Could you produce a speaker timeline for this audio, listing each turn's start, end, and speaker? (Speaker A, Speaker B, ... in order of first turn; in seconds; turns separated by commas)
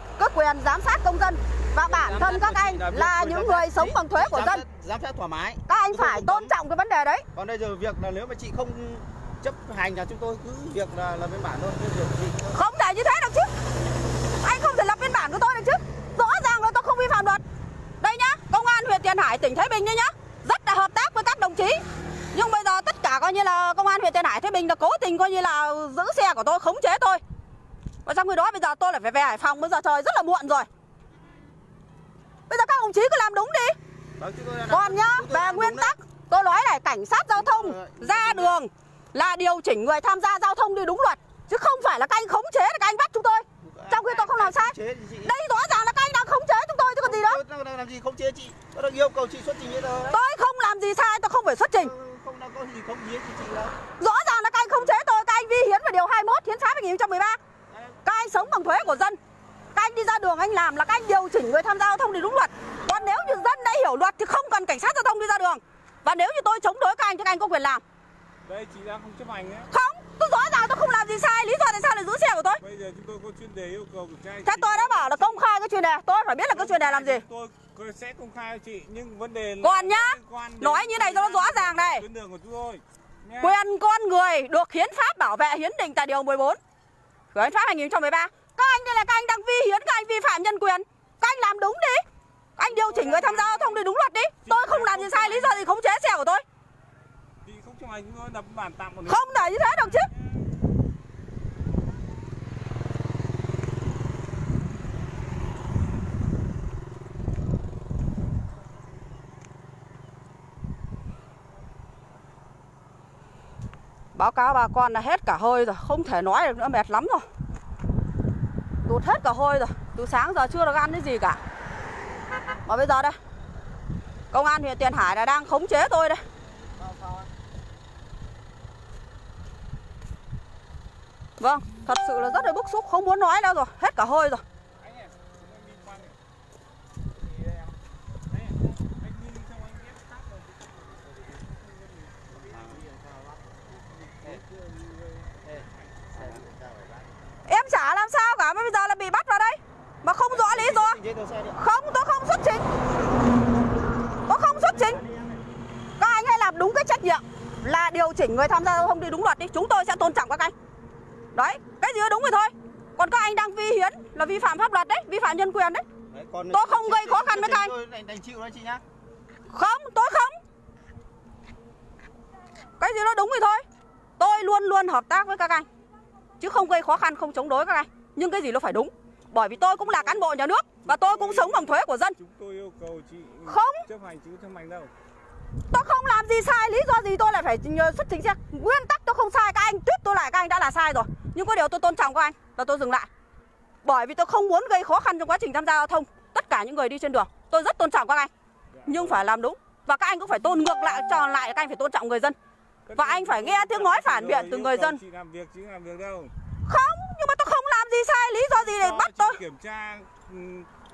Speaker A: 0.2-4.6, Speaker B: 1.8-6.5, Speaker A: 5.7-7.2, Speaker B: 7.3-12.6, Speaker A: 12.5-13.5, Speaker A: 14.4-17.4, Speaker A: 18.0-21.8, Speaker A: 22.3-27.2, Speaker A: 28.1-30.7, Speaker A: 32.5-33.8, Speaker B: 34.2-36.0, Speaker A: 34.7-44.7, Speaker B: 37.3-38.6, Speaker B: 43.6-45.4, Speaker A: 45.2-47.4, Speaker B: 47.0-50.2, Speaker A: 50.1-51.9, Speaker B: 51.7-53.8, Speaker A: 54.0-57.4, Speaker B: 57.7-58.7, Speaker A: 58.0-59.2, Speaker A: 59.8-67.8, Speaker C: 68.5-69.7, Speaker A: 69.7-72.6, Speaker C: 72.6-75.4, Speaker A: 74.5-77.2, Speaker C: 76.5-83.6, Speaker A: 79.6-82.0, Speaker A: 83.4-86.6, Speaker A: 87.3-92.0, Speaker A: 92.6-96.4, Speaker C: 92.6-93.9, Speaker C: 94.5-95.7, Speaker C: 97.5-99.7, Speaker A: 99.1-100.1, Speaker A: 114.1-117.3, Speaker A: 118.9-121.4, Speaker A: 122.7-123.2, Speaker A: 124.3-126.2, Speaker B: 126.8-127.3, Speaker A: 131.4-134.4, Speaker C: 134.8-136.2, Speaker C: 138.3-143.1, Speaker B: 142.5-142.9, Speaker C: 143.9-146.2, Speaker B: 146.1-147.1, Speaker A: 147.5-151.0, Speaker B: 150.3-151.6, Speaker A: 151.6-152.6, Speaker A: 154.3-155.0, Speaker A: 156.0-160.5, Speaker A: 161.3-165.8, Speaker B: 166.1-168.8, Speaker A: 166.5-167.7, Speaker A: 169.5-170.3, Speaker A: 172.8-173.6, Speaker A: 174.2-175.7, Speaker A: 176.4-182.2, Speaker C: 179.6-184.9, Speaker A: 183.5-183.8, Speaker A: 185.7-193.1, Speaker A: 193.8-198.3, Speaker C: 198.7-199.3, Speaker A: 198.9-202.4, Speaker C: 202.9-206.3, Speaker A: 203.0-205.0, Speaker A: 206.7-209.4, Speaker C: 208.5-210.7